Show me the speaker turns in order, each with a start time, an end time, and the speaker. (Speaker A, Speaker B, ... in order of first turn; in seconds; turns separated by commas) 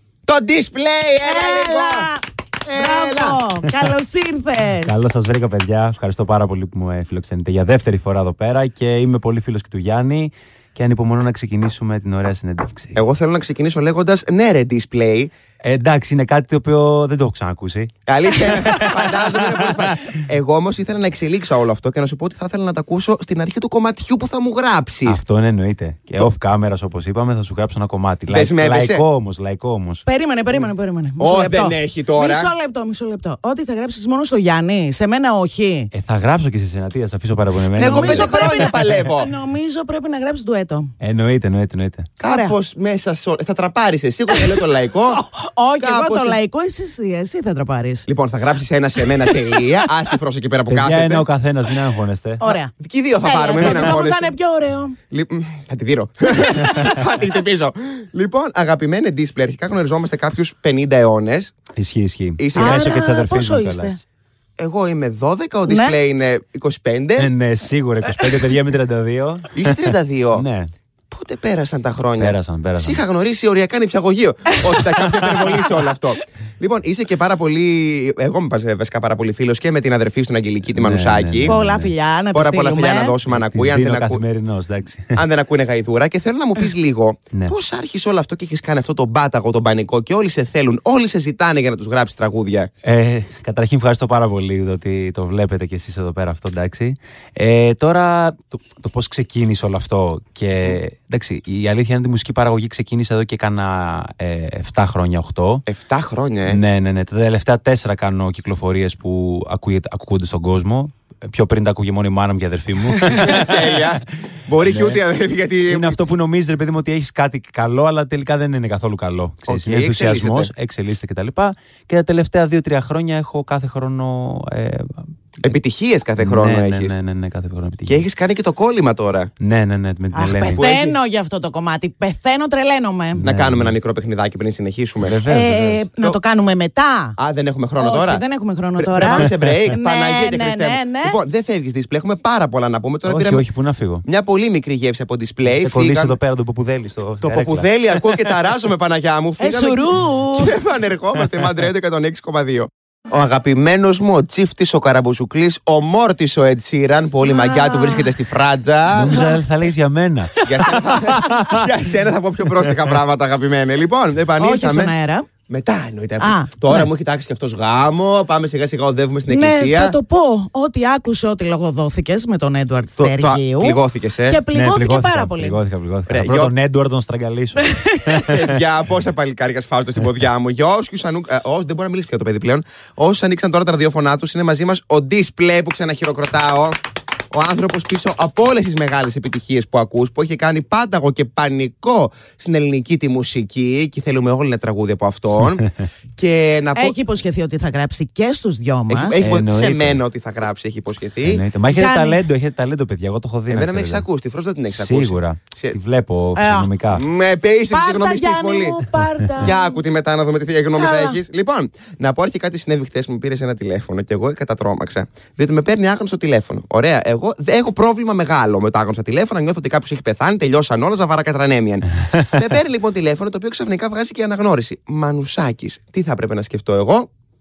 Speaker A: 0.3-2.1, Speaker B: 1.2-5.1, Speaker A: 2.6-3.4, Speaker C: 4.8-13.0, Speaker A: 12.9-15.3, Speaker C: 15.6-19.7, Speaker A: 18.1-25.2, Speaker C: 25.0-30.0, Speaker A: 28.3-29.0, Speaker B: 30.1-35.9, Speaker A: 31.2-32.5, Speaker C: 35.9-38.7, Speaker A: 37.8-39.3, Speaker B: 37.8-40.9, Speaker C: 41.0-42.1, Speaker A: 42.2-45.2, Speaker B: 42.2-42.5, Speaker B: 45.2-48.0, Speaker A: 45.8-46.4, Speaker A: 48.1-51.2, Speaker B: 49.2-49.7, Speaker C: 50.7-52.4, Speaker B: 52.4-52.7, Speaker A: 52.8-54.3, Speaker B: 53.2-55.0, Speaker A: 55.1-61.5, Speaker C: 61.7-64.0, Speaker A: 62.4-62.9, Speaker B: 62.5-64.0, Speaker A: 64.6-67.3, Speaker B: 65.7-66.0, Speaker C: 67.2-70.7, Speaker A: 69.5-70.4, Speaker A: 71.1-81.5, Speaker C: 72.2-73.0, Speaker C: 80.7-81.9, Speaker B: 81.4-83.2, Speaker A: 82.3-84.2, Speaker C: 83.3-85.2, Speaker A: 85.1-92.7, Speaker C: 92.8-105.6, Speaker A: 105.7-106.6, Speaker C: 106.5-113.8, Speaker A: 113.0-116.0, Speaker C: 114.6-115.0, Speaker C: 115.7-125.5, Speaker A: 119.5-120.5, Speaker A: 125.4-126.9, Speaker C: 126.2-128.0, Speaker A: 127.9-129.3, Speaker C: 129.4-130.6, Speaker B: 130.1-133.2, Speaker A: 130.5-131.0, Speaker C: 133.1-133.8, Speaker A: 133.2-135.2, Speaker C: 135.0-135.8, Speaker B: 135.2-137.2, Speaker A: 137.2-138.2, Speaker B: 137.8-141.2, Speaker A: 138.8-143.4, Speaker C: 143.1-144.0, Speaker A: 144.1-146.2, Speaker C: 145.4-148.2, Speaker A: 147.2-159.2, Speaker B: 149.4-150.6, Speaker B: 157.2-158.2, Speaker C: 158.9-160.3, Speaker B: 159.1-159.3, Speaker B: 160.3-161.3, Speaker A: 160.4-164.9, Speaker C: 160.9-161.6, Speaker B: 164.4-165.3, Speaker A: 165.5-169.9, Speaker B: 166.2-166.9, Speaker B: 169.3-175.6, Speaker A: 172.9-174.4, Speaker C: 174.5-178.6, Speaker A: 176.1-176.5, Speaker B: 177.6-178.2, Speaker A: 178.2-186.8, Speaker A: 187.3-197.0, Speaker B: 196.8-199.2, Speaker A: 198.9-201.4, Speaker C: 199.2-200.0, Speaker C: 201.2-204.1, Speaker B: 201.7-202.2, Speaker A: 203.5-205.8, Speaker C: 204.7-207.0, Speaker B: 206.3-206.7, Speaker A: 206.9-208.8, Speaker B: 207.7-209.8, Speaker A: 209.4-227.1, Speaker B: 210.7-211.2